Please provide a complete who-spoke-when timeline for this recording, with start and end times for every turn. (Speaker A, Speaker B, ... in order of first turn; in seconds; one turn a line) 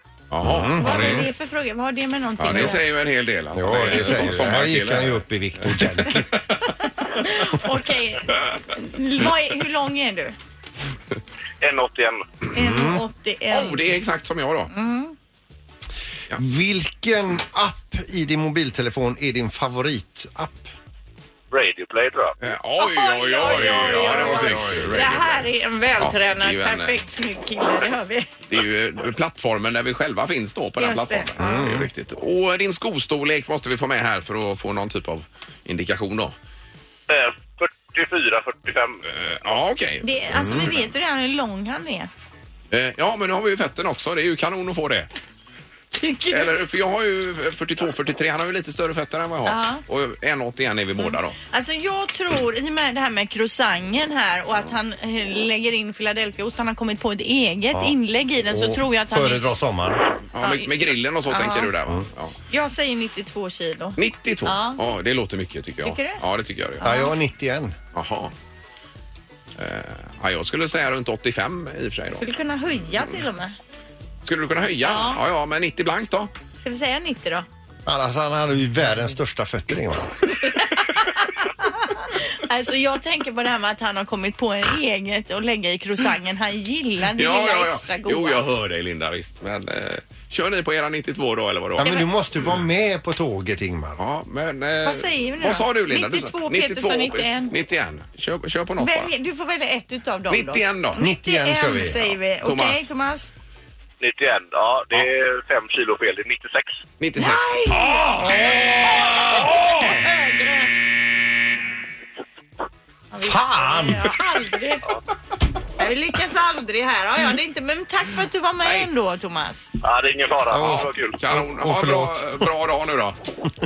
Speaker A: 0.3-1.3
Speaker B: 0.4-1.3
Speaker C: 0.8-2.8
Speaker A: 2.4-6.4
Speaker B: 3.5-6.4
Speaker C: 7.0-10.3
Speaker D: 11.6-12.2
Speaker C: 12.5-13.9
Speaker B: 12.6-13.0
Speaker A: 13.5-14.7
Speaker C: 14.7-15.1
Speaker B: 16.3-20.7
Speaker D: 21.5-22.4
Speaker A: 22.4-25.4
Speaker C: 22.8-28.3
Speaker B: 23.8-25.1
Speaker A: 26.0-27.0
Speaker A: 28.5-36.3
Speaker C: 30.8-31.3
Speaker B: 31.4-31.9
Speaker D: 37.1-39.6
Speaker A: 39.1-40.7
Speaker C: 40.0-42.1
Speaker B: 40.3-40.7
Speaker A: 42.7-45.1
Speaker C: 46.0-46.5
Speaker A: 46.3-51.4
Speaker C: 49.5-49.8
Speaker C: 51.0-59.5
Speaker B: 58.5-60.0
Speaker A: 60.3-62.4
Speaker C: 60.4-60.7
Speaker C: 61.3-61.7
Speaker C: 62.5-64.8
Speaker A: 64.0-66.8
Speaker C: 65.8-66.2
Speaker C: 66.8-67.1
Speaker B: 66.8-67.8
Speaker A: 67.9-68.3
Speaker A: 69.6-72.3
Speaker C: 72.2-73.5
Speaker A: 74.2-76.3
Speaker C: 74.8-75.2
Speaker C: 76.6-77.5
Speaker B: 77.9-80.2
Speaker C: 80.6-88.4
Speaker A: 87.1-91.9
Speaker B: 91.8-94.0
Speaker C: 91.8-92.1
Speaker A: 94.0-99.1
Speaker C: 94.8-97.5
Speaker C: 98.8-103.3
Speaker A: 100.3-101.0
Speaker B: 101.0-102.1
Speaker A: 102.4-102.9
Speaker D: 104.0-106.8
Speaker A: 107.0-110.0
Speaker C: 107.2-110.7
Speaker C: 113.1-114.9
Speaker B: 113.2-114.2
Speaker C: 115.8-119.7
Speaker A: 118.6-118.9
Speaker D: 119.8-121.2
Speaker B: 120.5-122.5
Speaker A: 120.6-123.2